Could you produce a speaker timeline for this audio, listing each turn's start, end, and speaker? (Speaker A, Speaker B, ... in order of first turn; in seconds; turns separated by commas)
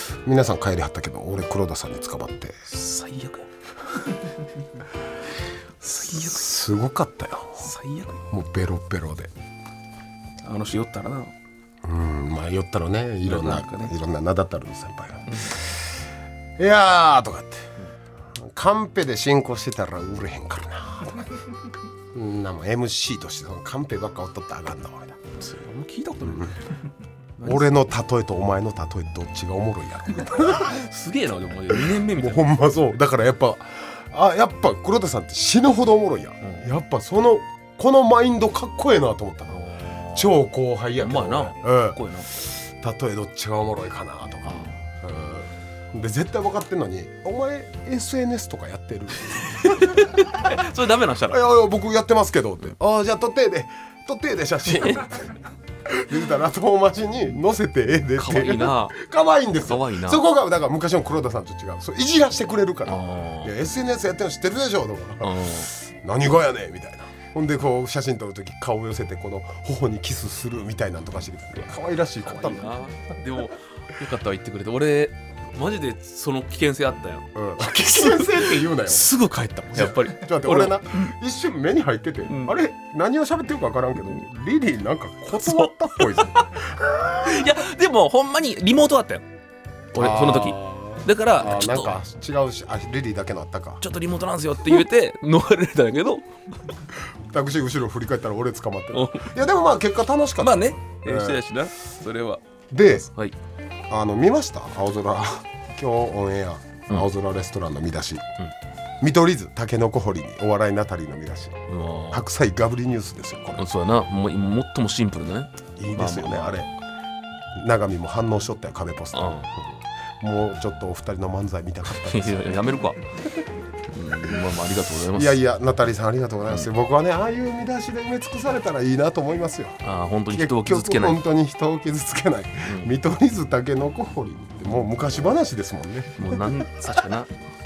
Speaker A: 0.2-2.5, Speaker B: 2.7-3.5, Speaker B: 5.8-6.4, Speaker A: 6.1-7.7, Speaker B: 7.6-8.2, Speaker A: 8.3-9.3, Speaker B: 10.4-11.3, Speaker A: 11.8-15.9, Speaker B: 13.2-13.9, Speaker B: 15.3-15.6, Speaker A: 16.6-17.7, Speaker A: 18.3-21.4, Speaker A: 22.1-25.2, Speaker B: 25.4-26.6, Speaker A: 26.2-26.6, Speaker B: 27.4-27.7, Speaker A: 27.4-30.8, Speaker B: 30.5-32.5, Speaker A: 31.7-39.6, Speaker B: 39.5-40.4, Speaker A: 40.1-50.0, Speaker B: 41.0-42.3, Speaker B: 44.5-44.8, Speaker B: 49.3-51.4, Speaker A: 51.3-72.7, Speaker B: 54.7-55.0, Speaker B: 58.1-59.0, Speaker B: 59.6-60.2, Speaker B: 62.9-63.5, Speaker B: 65.2-65.7, Speaker B: 72.2-81.1, Speaker A: 77.3-79.1, Speaker A: 79.7-87.5, Speaker B: 82.2-82.5, Speaker B: 85.3-86.5, Speaker B: 87.2-89.2, Speaker B: 89.9-91.9, Speaker A: 89.9-93.8, Speaker B: 93.8-96.7, Speaker A: 97.2-101.4, Speaker B: 98.9-99.3, Speaker B: 100.4-102.4, Speaker A: 102.7-103.1, Speaker B: 103.0-103.3, Speaker A: 103.9-108.2, Speaker A: 109.0-111.6, Speaker B: 111.7-112.2, Speaker A: 112.1-113.7, Speaker B: 113.6-116.6, Speaker A: 115.8-116.7, Speaker A: 117.5-122.4, Speaker B: 119.1-119.5, Speaker B: 121.9-123.0, Speaker B: 123.9-125.4, Speaker A: 125.1-129.8, Speaker B: 129.8-131.2, Speaker A: 130.3-136.6, Speaker B: 136.2-137.3